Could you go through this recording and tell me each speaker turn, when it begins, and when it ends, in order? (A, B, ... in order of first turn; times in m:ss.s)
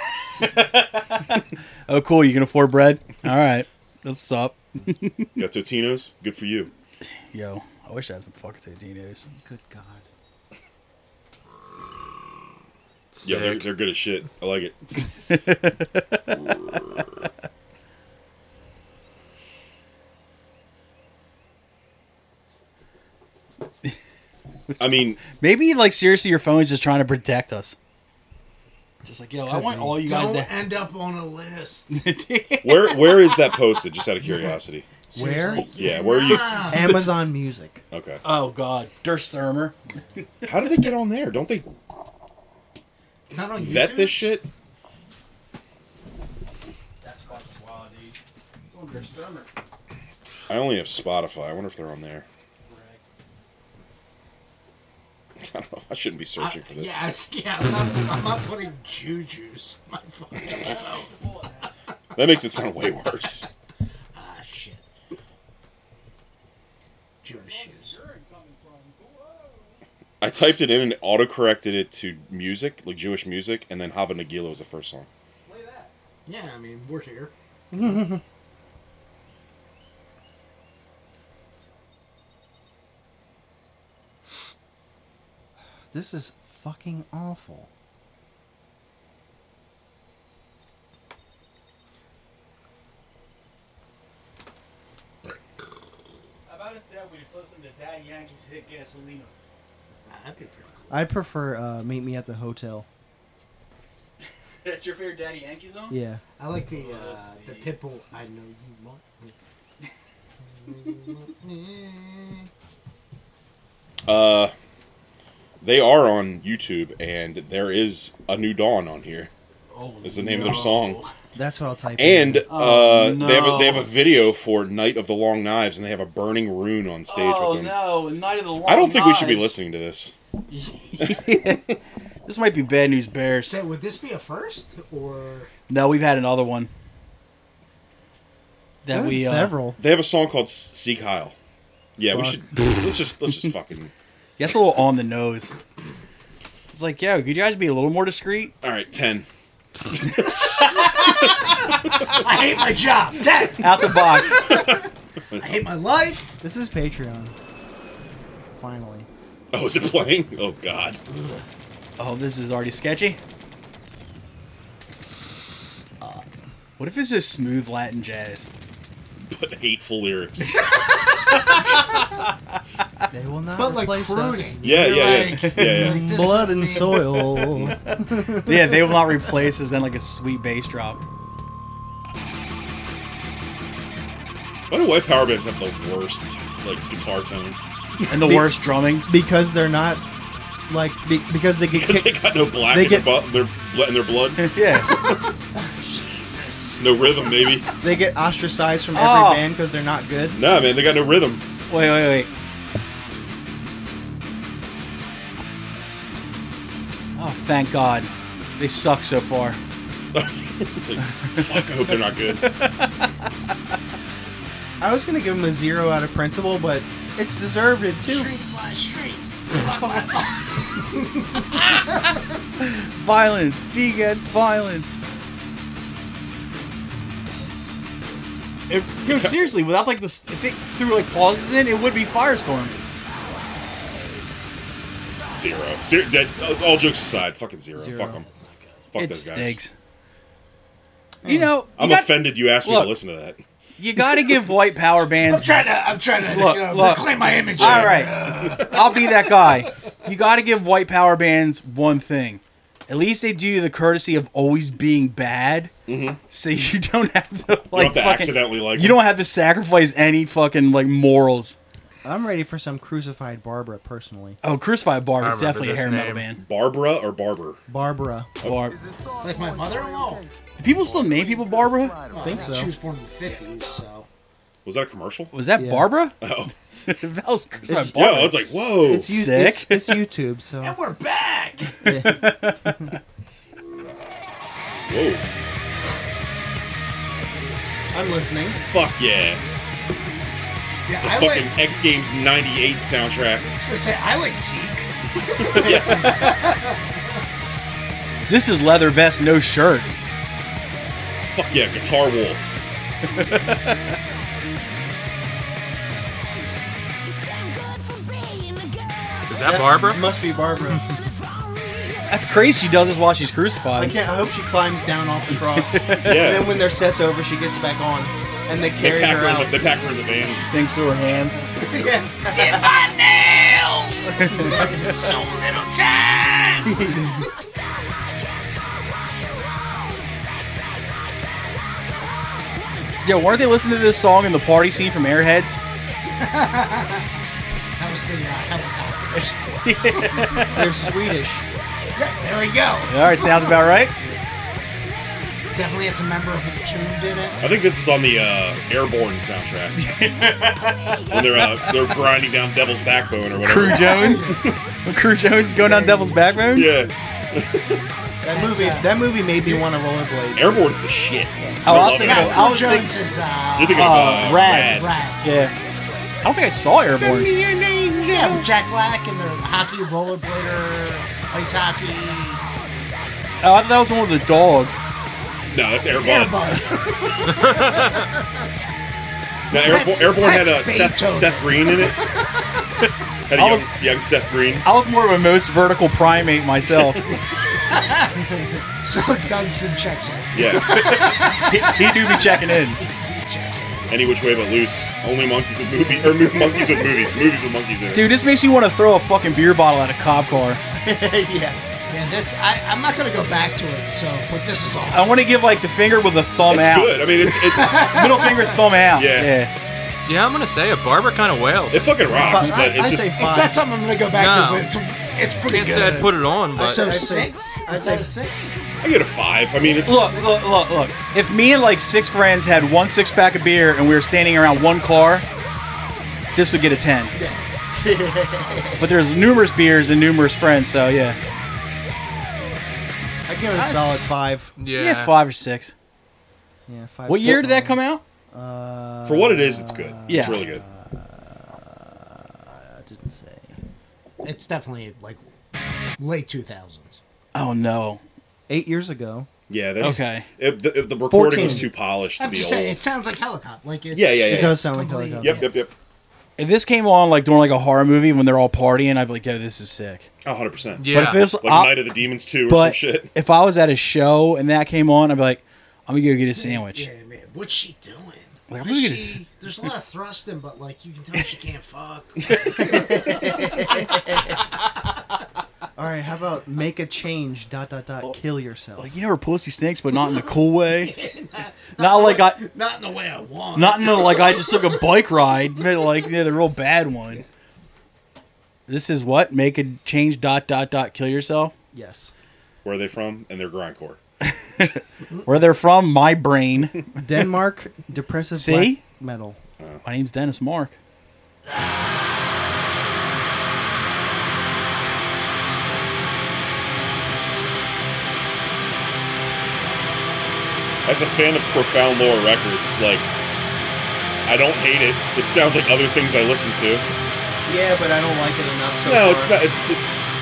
0:00.4-0:05.4 A
0:05.4-0:06.7 B
0:07.0-0:09.2 A
0:09.3-0:10.1 C
0:13.1-0:13.7 D
0:13.2-0:15.2 B
0:15.3-0:16.4 A
0:24.7-0:27.8 A
0:24.8-0:25.2 B
0:29.0-0:30.6 A
0:29.8-0:32.0 E
0:31.9-0:33.4 A
0:32.6-0:34.9 B
0:35.1-0:37.0 E
0:35.1-0:35.7 C
0:35.8-0:36.7 B
0:36.6-0:37.8 C
0:37.9-0:38.2 B
0:38.2-0:39.8 A
0:40.4-0:41.7 B
0:43.3-0:44.4 E
0:43.6-0:44.5 B
0:47.0-0:49.5 A
0:50.5-0:52.3 B
0:52.6-0:53.0 A
0:55.4-0:57.0 B
0:56.4-1:01.1 E
1:00.4-1:01.7 A
1:02.2-1:03.5 B
1:04.1-1:04.9 E
1:07.2-1:08.0 E
1:07.3-1:09.8 A
1:10.2-1:15.1 B
1:15.5-1:15.9 A
1:16.3-1:17.3 E
1:17.7-1:18.2 C
1:25.9-1:27.7 C
1:36.5-1:39.3 A
1:40.1-1:41.1 E
1:40.9-1:42.9 C
1:44.6-1:46.0 A
1:45.9-1:46.2 C
1:46.4-1:49.4 E
1:46.7-1:47.8 A
1:50.6-1:52.5 E
1:54.1-1:54.5 B
1:55.6-1:59.3 B
1:59.7-2:01.1 A
2:00.0-2:01.0 B
2:01.4-2:02.5 C
2:02.0-2:07.8 B
2:02.5-2:03.9 A
2:07.1-2:09.6 A
2:08.6-2:10.1 B
2:10.5-2:11.7 A
2:11.0-2:11.7 B
2:12.2-2:13.6 A
2:13.4-2:15.5 E
2:15.7-2:16.7 A
2:18.8-2:19.6 A
2:18.9-2:19.8 C
2:19.8-2:21.4 B
2:22.0-2:23.9 B
2:22.1-2:22.4 C
2:24.4-2:25.5 A
2:26.7-2:28.5 A
2:28.6-2:29.3 B
2:30.0-2:30.8 B
2:30.6-2:31.1 A
2:32.1-2:34.8 E
2:33.6-2:34.5 A
2:34.5-2:34.8 B
2:35.3-2:35.6 B
2:35.4-2:36.4 E
2:36.4-2:37.4 C
2:38.5-2:39.1 C
2:39.5-2:41.0 B
2:42.0-2:43.2 A
2:46.8-2:48.5 A
2:49.3-2:50.7 B
2:53.1-2:54.9 C
2:53.6-2:57.5 E
2:54.6-2:56.2 B
2:55.4-2:55.7 A
2:55.5-2:59.0 C
2:58.3-3:01.0 A
3:04.7-3:08.3 B
3:08.1-3:09.1 A
3:08.2-3:08.5 C
3:09.1-3:10.0 C
3:10.7-3:13.1 C
3:11.7-3:15.0 B
3:14.4-3:14.9 A
3:14.9-3:16.9 E
3:16.8-3:17.7 B
3:17.8-3:20.4 C
3:18.9-3:19.5 A
3:20.3-3:21.4 B
3:21.7-3:22.3 A
3:27.2-3:29.6 A
3:30.1-3:32.5 B
3:32.4-3:33.1 A
3:34.8-3:38.4 C
3:38.0-3:42.0 E
3:42.6-3:45.0 A
3:48.7-3:52.7 A
3:49.1-3:49.5 B
3:53.1-3:53.9 E
3:55.3-3:58.2 B
3:57.8-3:58.2 C
3:58.2-3:58.9 E
3:58.9-3:59.6 B
3:59.0-3:59.7 A
4:01.2-4:03.0 A
4:01.8-4:03.4 B
4:03.8-4:15.7 A
4:05.1-4:09.2 E
4:07.6-4:08.6 B
4:15.9-4:16.2 B
4:16.3-4:21.6 A
4:17.7-4:19.0 B
4:22.0-4:24.4 C
4:24.4-4:26.4 A
4:25.2-4:26.3 D
4:26.4-4:27.6 B
4:27.7-4:28.3 C
4:28.4-4:28.8 A
4:29.2-4:30.3 E
4:30.6-4:32.0 A
4:30.8-4:31.1 B
4:32.1-4:34.1 E
4:32.2-4:32.8 C
4:34.6-4:35.3 B
4:35.3-4:36.2 A
4:35.6-4:35.9 C
4:36.2-4:36.5 B
4:36.9-4:40.0 A
4:37.7-4:40.8 C
4:37.9-4:39.2 B
4:40.6-4:41.8 E
4:41.7-4:43.0 A
4:41.9-4:43.0 C
4:44.9-4:45.3 B
4:47.9-4:48.6 C
4:48.6-4:49.4 B
4:50.9-4:51.5 E
4:50.9-4:53.5 B
4:53.5-4:56.8 E
4:55.4-4:56.2 B
4:58.3-4:59.9 A
5:01.3-5:02.6 B
5:03.1-5:03.9 A
5:09.3-5:10.1 D
5:09.4-5:10.8 C
5:12.1-5:14.0 A
5:13.8-5:19.6 C
5:15.5-5:16.2 A
5:16.0-5:16.6 B
5:18.8-5:20.4 B
5:20.2-5:21.5 A
5:21.6-5:27.0 E
5:22.4-5:22.7 C
5:24.2-5:24.7 A
5:24.4-5:24.9 C
5:33.0-5:35.6 A
5:36.2-5:37.1 E
5:37.8-5:40.5 E
5:39.6-5:40.8 A
5:40.5-5:41.5 C
5:42.0-5:44.2 E
5:42.9-5:44.0 A
5:45.5-5:47.4 E
5:47.4-5:49.8 B
5:49.8-5:51.8 A
5:51.1-5:54.3 B
5:53.4-5:56.7 A
5:53.8-5:54.5 E
5:55.6-5:56.2 E
5:56.5-5:57.8 B
5:58.2-6:00.5 C
5:58.3-5:59.6 E
6:00.4-6:02.6 B
6:01.4-6:05.4 E
6:01.6-6:03.0 A
6:03.6-6:05.0 B
6:03.7-6:05.5 A
6:06.2-6:07.6 A
6:06.9-6:07.4 E
6:08.0-6:12.4 E
6:08.2-6:08.4 A
6:13.4-6:14.8 A
6:15.5-6:16.6 B
6:15.9-6:18.3 E
6:17.4-6:18.0 D
6:19.5-6:22.0 B
6:19.5-6:22.0 E
6:23.3-6:24.7 B
6:23.4-6:23.7 A
6:24.6-6:27.1 A
6:26.7-6:27.0 B
6:27.1-6:34.0 E
6:30.3-6:30.9 B
6:30.7-6:32.8 A
6:33.9-6:38.1 B
6:36.4-6:36.9 E
6:37.9-6:40.6 A
6:40.8-6:41.6 C
6:41.9-6:45.2 E
6:44.9-6:47.0 A
6:46.5-6:47.9 B
6:47.3-6:48.6 E
6:47.6-6:49.5 A
6:48.9-6:49.4 B
6:50.1-6:51.9 D
6:51.7-6:53.2 B
6:52.0-6:53.6 C
6:52.3-6:58.5 E
6:54.1-6:54.7 D
6:55.5-6:57.1 D
6:56.6-6:58.4 C
6:58.8-7:00.1 B
6:59.6-7:00.5 E
6:59.8-7:05.3 A
7:06.4-7:07.2 A
7:07.2-7:07.5 E
7:07.7-7:08.9 C
7:08.8-7:11.2 A
7:13.3-7:14.5 C
7:13.5-7:15.7 A
7:14.6-7:15.1 D
7:16.7-7:23.6 C
7:17.1-7:18.0 A
7:19.0-7:20.6 B
7:20.1-7:20.4 A
7:24.2-7:25.3 E
7:26.0-7:27.0 E
7:27.3-7:28.0 A
7:28.5-7:29.3 C
7:29.5-7:32.8 B
7:29.8-7:30.3 A
7:31.1-7:31.7 C
7:32.2-7:35.5 E
7:33.9-7:35.8 B
7:34.2-7:35.5 C
7:36.4-7:40.1 A
7:40.2-7:43.1 B
7:40.8-7:41.2 D
7:40.9-7:46.9 A
7:46.3-7:53.8 E
7:48.5-7:49.2 A
7:52.5-7:53.0 A
7:52.7-7:54.3 C
7:55.8-7:58.9 C
7:58.8-8:01.0 A
8:00.7-8:04.8 E
8:01.8-8:02.5 A
8:03.6-8:07.2 A
8:08.7-8:11.5 A
8:11.7-8:12.1 C
8:12.6-8:14.0 B
8:14.2-8:17.0 A
8:17.0-8:19.4 C
8:18.4-8:18.8 A
8:19.6-8:19.8 B
8:19.8-8:20.8 A
8:30.8-8:33.1 B
8:34.3-8:36.8 B
8:37.5-8:39.4 C
8:38.8-8:40.0 B